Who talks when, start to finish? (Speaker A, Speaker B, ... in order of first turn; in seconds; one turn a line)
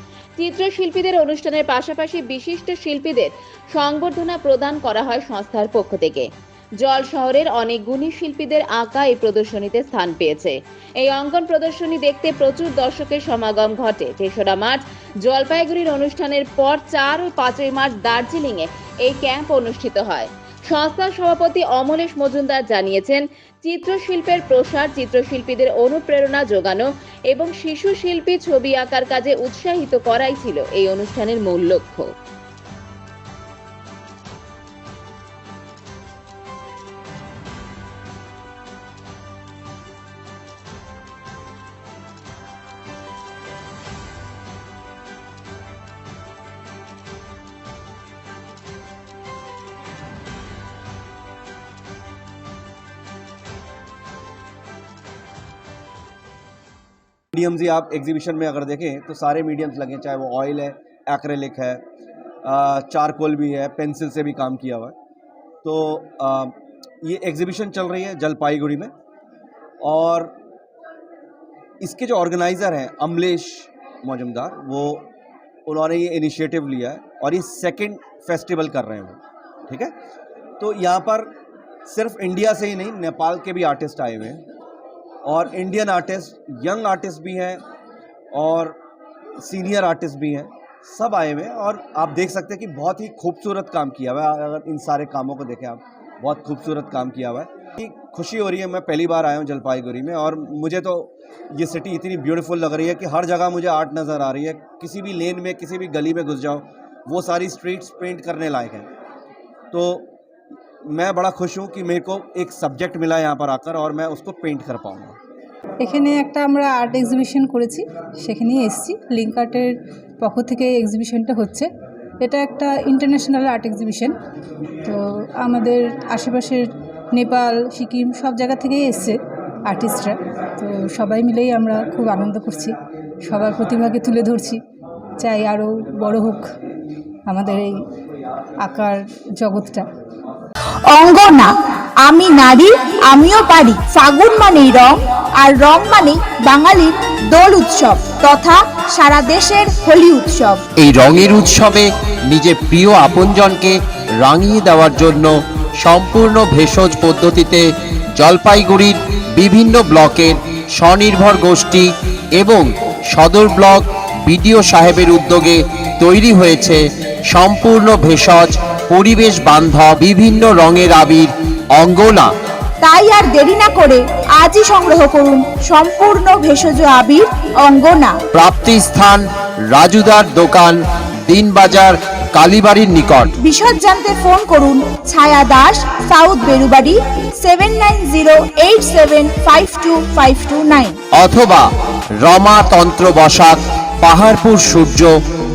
Speaker A: 0.4-6.3
Speaker A: 6.8-32.1
Speaker B: 57.3-61.8
Speaker B: 62.4-64.9
Speaker B: 65.6-68.9
Speaker B: 69.8-70.3
Speaker B: 71.8-75.1
Speaker B: 75.7-79.9
Speaker B: 80.6-81.3
Speaker B: 81.9-84.4
Speaker B: 85.2-87.6
Speaker B: 88.3-88.8
Speaker B: 89.4-108.9
Speaker B: 109.7-110.1
Speaker B: 110.9-115.2
Speaker C: 115.8-121.7
Speaker C: 122.2-124.2
Speaker C: 124.8-134.6
Speaker C: 135.2-136.6
Speaker C: 137.2-137.9
Speaker C: 138.6-139.9
Speaker D: 140.9-150.6
Speaker E: 150.8-172.3
Speaker D: 172.8-178.2
Speaker E: 178.3-183.3
Speaker D: 183.4-191.0
Speaker E: 191.1-195.1